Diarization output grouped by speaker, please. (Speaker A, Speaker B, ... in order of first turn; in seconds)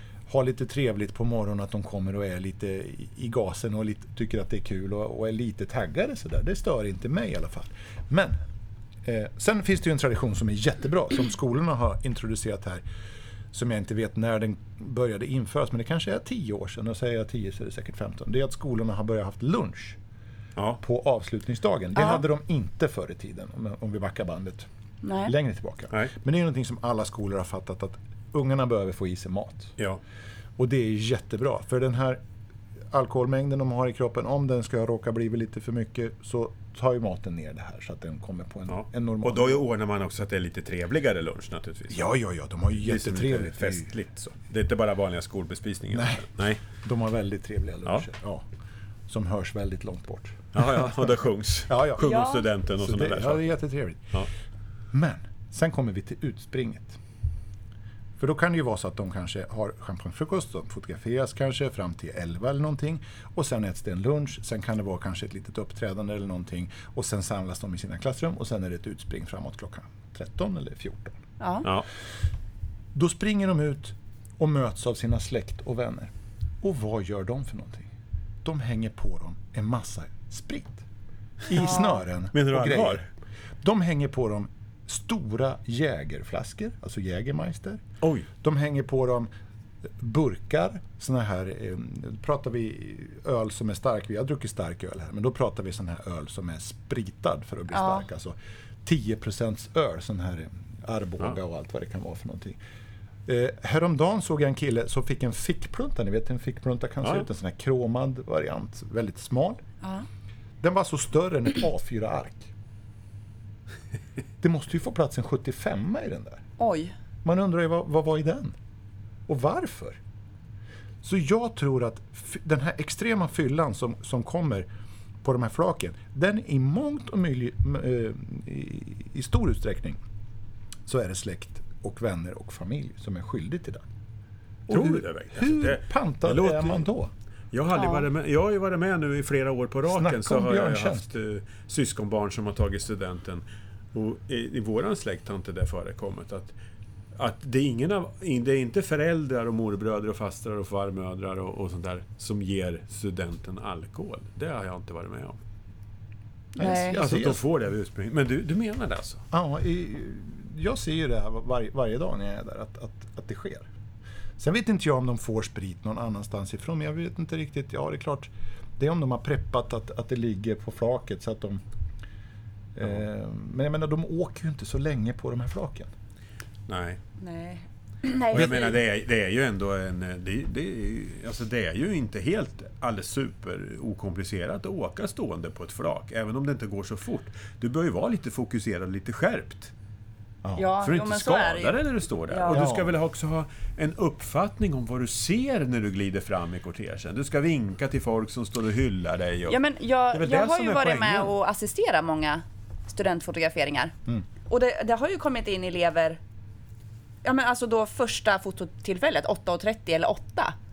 Speaker A: 0.3-8.3, 9.0-12.8, 13.5-20.0, 20.8-24.7, 25.2-29.7, 30.6-32.2, 32.9-39.6, 41.9-43.9, 45.9-48.4, 49.1-50.9, 51.7-52.0, 52.8-54.1, 54.9-57.0, 58.2-71.2, 72.9-76.1, 76.6-77.9, 78.4-80.8, 81.5-83.1, 83.6-87.8, 88.4-89.3, 90.0-102.6, 103.3-109.6, 110.6-112.5, 114.4-116.4, 117.2-118.5, 119.3-120.0, 121.0-124.7, 125.2-130.0, 130.9-133.8, 134.7-137.1, 139.9-141.1, 156.5-157.4, 159.3-163.7, 164.4-171.6, 172.7-175.9, 190.4-190.7, 192.5-192.9
Speaker B: 20.6-20.8, 38.7-42.1, 42.8-46.6, 50.5-53.5, 82.3-83.0, 88.0-88.3, 134.7-136.9, 137.5-146.6, 147.2-155.4, 156.9-159.2, 176.7-177.0, 178.3-189.7, 190.8-199.6, 200.1-201.4
Speaker C: 21.9-22.2, 25.0-25.3, 52.0-52.4, 71.4-71.7, 81.5-82.0, 97.7-98.0, 116.6-116.9, 137.7-138.1, 156.6-157.0, 177.2-178.8, 190.6-192.6, 199.5-203.9, 204.4-206.2, 207.2-210.5